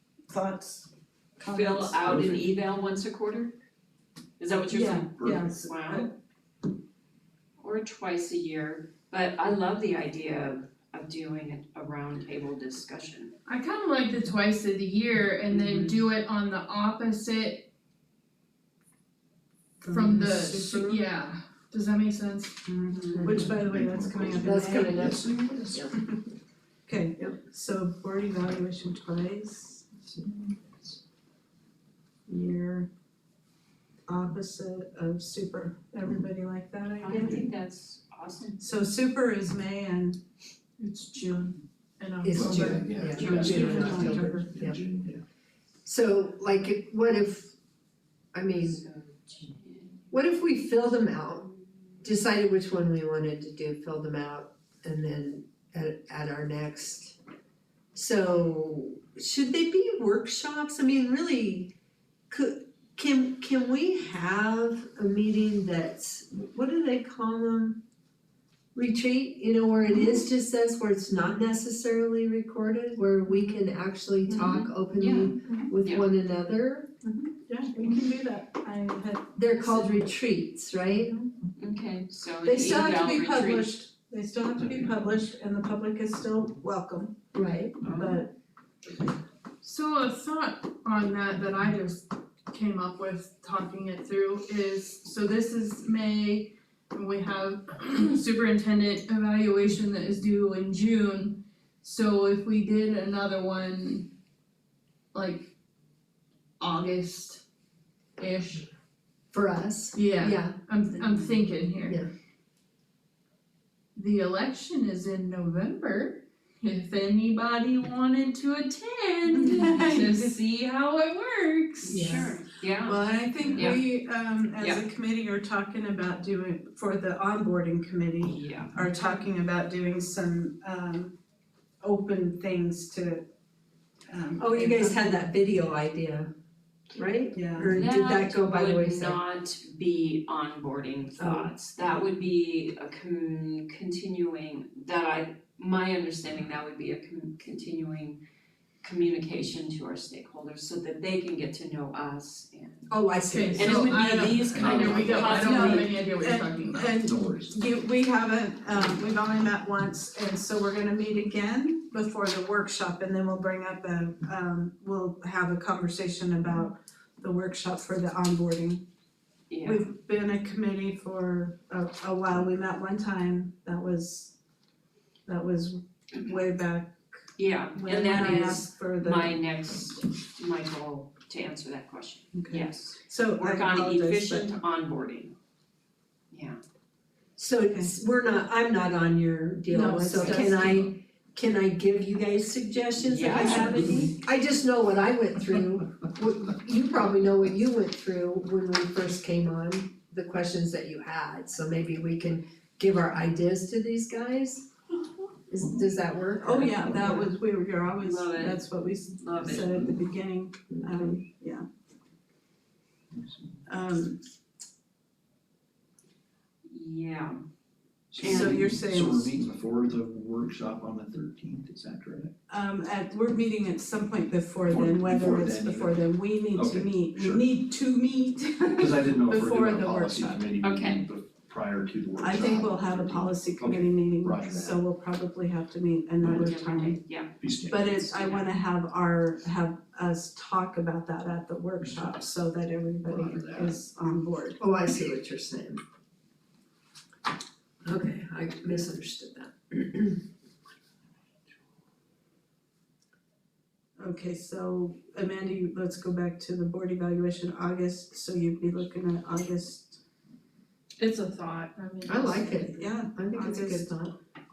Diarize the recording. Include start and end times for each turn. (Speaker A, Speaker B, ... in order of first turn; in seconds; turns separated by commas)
Speaker A: 0.3-2.1, Speaker B: 1.5-3.5, Speaker C: 2.1-2.4, Speaker B: 4.4-6.1, Speaker A: 4.7-6.1, Speaker B: 7.6-13.3, Speaker D: 13.5-17.7, Speaker B: 15.5-16.0, Speaker A: 19.8-21.0, Speaker D: 19.9-22.6, Speaker A: 22.7-25.2, Speaker E: 23.1-23.5, Speaker C: 23.4-25.8, Speaker E: 24.4-25.9, Speaker A: 26.9-30.1, Speaker A: 32.3-32.9, Speaker A: 34.1-37.4, Speaker B: 37.0-38.6, Speaker A: 38.6-40.2, Speaker D: 40.8-44.4, Speaker E: 42.2-44.8, Speaker C: 42.4-45.2, Speaker A: 43.2-44.5, Speaker E: 45.9-47.5, Speaker E: 48.3-48.8, Speaker B: 48.5-50.1, Speaker E: 50.1-51.5, Speaker E: 52.0-57.2, Speaker E: 57.9-61.8, Speaker E: 62.3-67.8, Speaker E: 68.8-76.9, Speaker B: 74.3-76.1, Speaker A: 77.0-80.0, Speaker E: 79.4-81.2, Speaker B: 81.6-83.7, Speaker A: 82.4-87.1, Speaker E: 87.3-87.8, Speaker B: 87.8-88.2, Speaker A: 87.8-88.3, Speaker D: 89.6-104.1, Speaker D: 105.1-105.5, Speaker D: 106.6-107.4, Speaker D: 108.2-108.7, Speaker E: 109.3-110.6, Speaker D: 109.9-112.0, Speaker D: 114.0-122.1, Speaker A: 119.3-120.3, Speaker B: 121.8-123.8, Speaker E: 121.9-122.4, Speaker A: 122.8-131.2, Speaker D: 123.4-123.7, Speaker B: 124.6-124.8, Speaker B: 128.2-128.8, Speaker A: 131.8-133.2, Speaker A: 134.1-135.2, Speaker E: 134.4-136.3, Speaker E: 136.9-139.2, Speaker A: 137.3-137.8, Speaker B: 137.7-148.2, Speaker E: 141.2-141.5, Speaker B: 148.8-152.9, Speaker E: 152.9-154.0, Speaker D: 153.3-157.0, Speaker B: 153.6-155.9, Speaker C: 154.6-155.3, Speaker A: 155.1-168.8, Speaker C: 157.0-157.5, Speaker B: 169.5-169.9, Speaker A: 169.6-174.3, Speaker A: 175.3-177.0, Speaker B: 177.4-185.3, Speaker A: 177.8-179.4, Speaker A: 182.3-184.5, Speaker B: 186.3-186.6, Speaker E: 187.4-204.7, Speaker A: 189.7-190.9, Speaker B: 190.1-190.5, Speaker B: 193.0-194.1, Speaker A: 193.3-194.0, Speaker E: 205.5-207.3, Speaker A: 206.4-211.7, Speaker B: 208.0-209.9, Speaker E: 210.8-211.2, Speaker A: 213.7-214.2, Speaker B: 216.7-217.4, Speaker C: 218.1-222.3, Speaker B: 218.2-218.6, Speaker A: 218.2-219.3, Speaker A: 222.5-230.4, Speaker C: 224.6-227.5, Speaker C: 228.8-234.8, Speaker B: 230.6-231.1, Speaker A: 232.2-237.0, Speaker B: 236.2-237.3, Speaker C: 237.4-238.2, Speaker A: 237.7-244.6, Speaker B: 238.1-238.5, Speaker C: 243.1-243.7, Speaker E: 244.6-245.8, Speaker E: 247.8-250.2, Speaker A: 254.0-260.0, Speaker D: 261.0-262.6, Speaker E: 262.1-264.1, Speaker A: 262.7-263.9